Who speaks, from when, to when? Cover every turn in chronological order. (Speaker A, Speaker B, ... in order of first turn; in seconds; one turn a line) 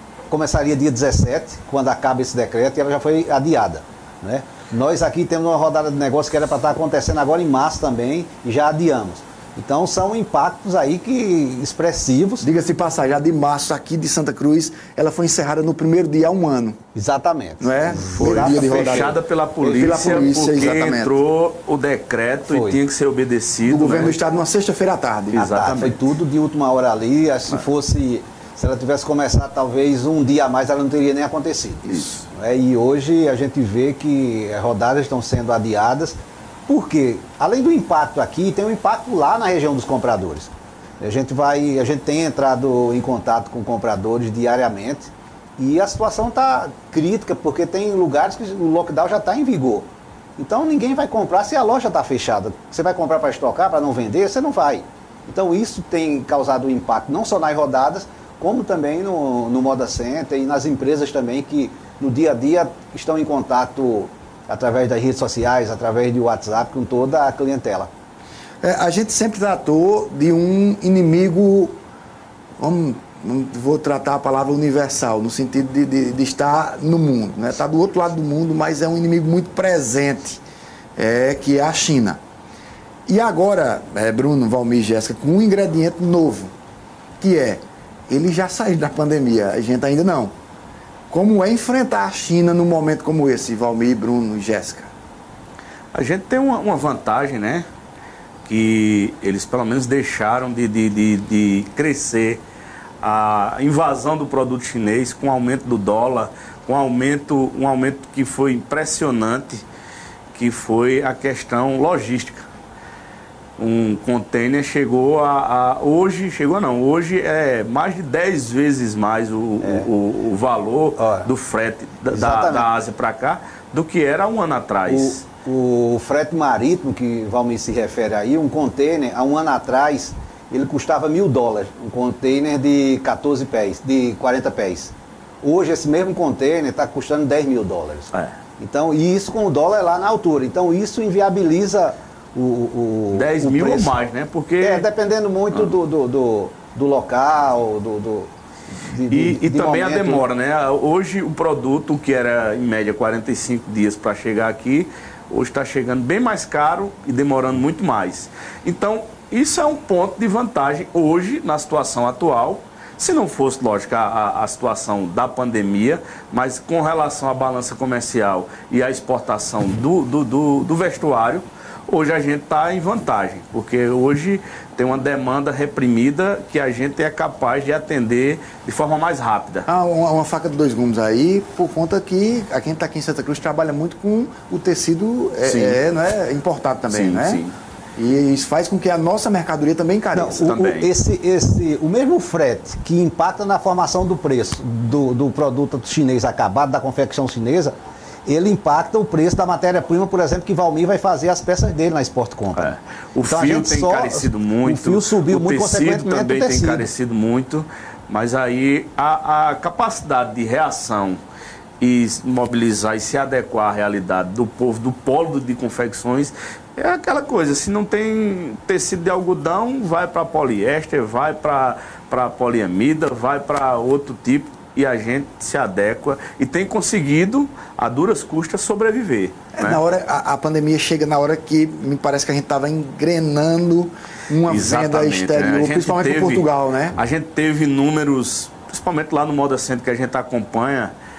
Speaker A: 0.3-12.5
Speaker B: 12.4-16.8
Speaker A: 16.9-19.1
Speaker B: 17.6-21.1
Speaker C: 18.3-24.1
Speaker A: 22.4-22.8
Speaker B: 23.6-25.8
Speaker C: 25.3-26.0
Speaker A: 25.6-67.9
Speaker C: 31.9-32.2
Speaker B: 68.6-71.8
Speaker B: 72.6-80.4
Speaker B: 81.0-82.2
Speaker B: 83.1-86.5
Speaker B: 87.2-90.3
Speaker B: 91.1-94.9
Speaker C: 95.9-97.7
Speaker C: 98.5-102.4
Speaker C: 103.0-109.6
Speaker C: 110.3-112.5
Speaker C: 113.6-125.2
Speaker A: 119.6-119.9
Speaker A: 121.0-121.3
Speaker A: 122.1-122.7
Speaker A: 124.9-143.9
Speaker C: 143.1-144.8
Speaker A: 144.6-148.3
Speaker A: 148.8-150.2
Speaker C: 149.1-179.7
Speaker B: 179.7-187.4
Speaker C: 185.4-185.8
Speaker C: 186.9-187.5
Speaker B: 188.0-190.6
Speaker A: 190.1-197.7
Speaker C: 190.4-190.9
Speaker A: 198.2-202.7
Speaker C: 202.6-211.2
Speaker A: 203.2-206.9
Speaker C: 211.8-229.8
Speaker B: 229.6-237.0
Speaker C: 234.5-236.4
Speaker C: 236.9-240.9